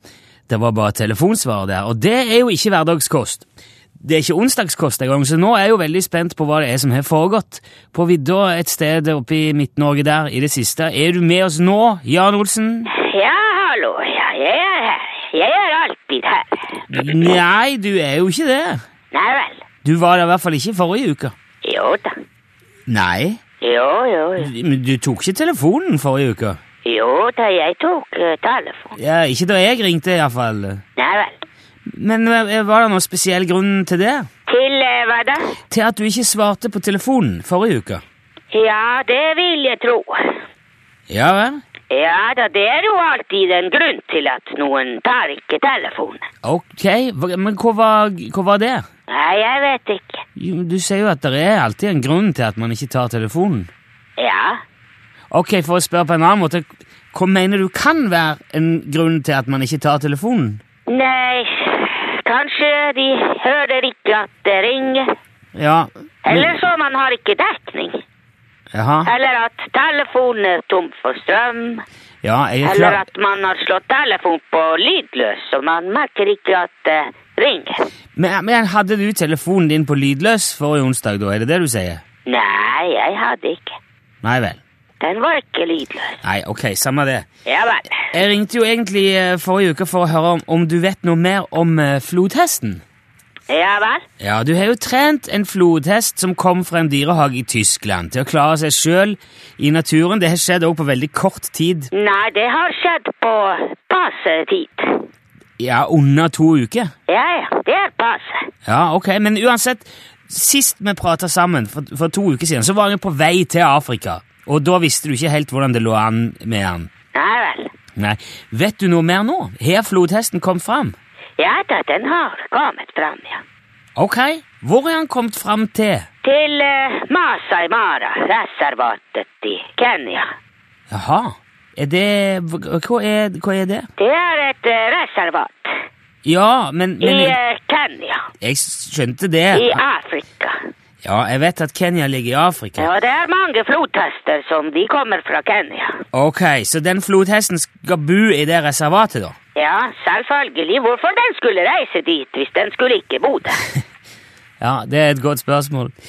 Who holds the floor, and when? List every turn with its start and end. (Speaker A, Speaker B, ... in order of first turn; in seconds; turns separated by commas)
Speaker A: 0.5-3.5, Speaker A: 4.0-12.9, Speaker B: 12.9-17.4, Speaker A: 16.9-18.8, Speaker B: 19.1-19.6, Speaker A: 19.8-21.3, Speaker B: 21.6-22.1, Speaker A: 22.9-23.4, Speaker B: 23.6-24.5, Speaker A: 24.4-26.6, Speaker B: 26.8-28.9, Speaker A: 28.9-30.8, Speaker B: 31.0-31.4, Speaker A: 31.9-34.3, Speaker B: 34.5-35.5, Speaker A: 35.7-38.0, Speaker B: 38.5-40.4, Speaker A: 41.1-41.6, Speaker B: 41.9-46.2, Speaker A: 46.4-48.8, Speaker B: 49.1-50.2, Speaker A: 50.4-53.7, Speaker B: 54.2-54.6, Speaker A: 55.3-60.6, Speaker B: 60.9-65.0, Speaker A: 65.5-66.5, Speaker B: 66.2-68.0, Speaker A: 68.7-69.1, Speaker B: 69.0-71.8, Speaker A: 72.2-73.0, Speaker B: 72.6-77.8, Speaker A: 78.2-82.0, Speaker B: 82.2-83.8, Speaker A: 84.2-84.6, Speaker B: 85.0-86.2, Speaker A: 86.2-87.2, Speaker B: 87.5-88.0, Speaker A: 88.1-92.8, Speaker B: 93.5-94.0, Speaker A: 94.2-101.9, Speaker B: 101.9-105.0, Speaker A: 105.6-106.9, Speaker B: 107.1-108.4, Speaker A: 108.7-116.9, Speaker B: 117.1-117.7, Speaker A: 118.0-120.9, Speaker B: 121.4-123.4, Speaker A: 124.0-126.0, Speaker B: 126.2-130.3, Speaker A: 130.9-133.9, Speaker B: 134.0-135.7, Speaker A: 136.2-137.3, Speaker B: 137.0-138.2, Speaker A: 138.4-139.8, Speaker B: 139.5-140.6, Speaker A: 141.0-142.9, Speaker B: 142.8-146.0, Speaker A: 146.1-149.3, Speaker B: 149.6-153.6, Speaker A: 154.6-155.9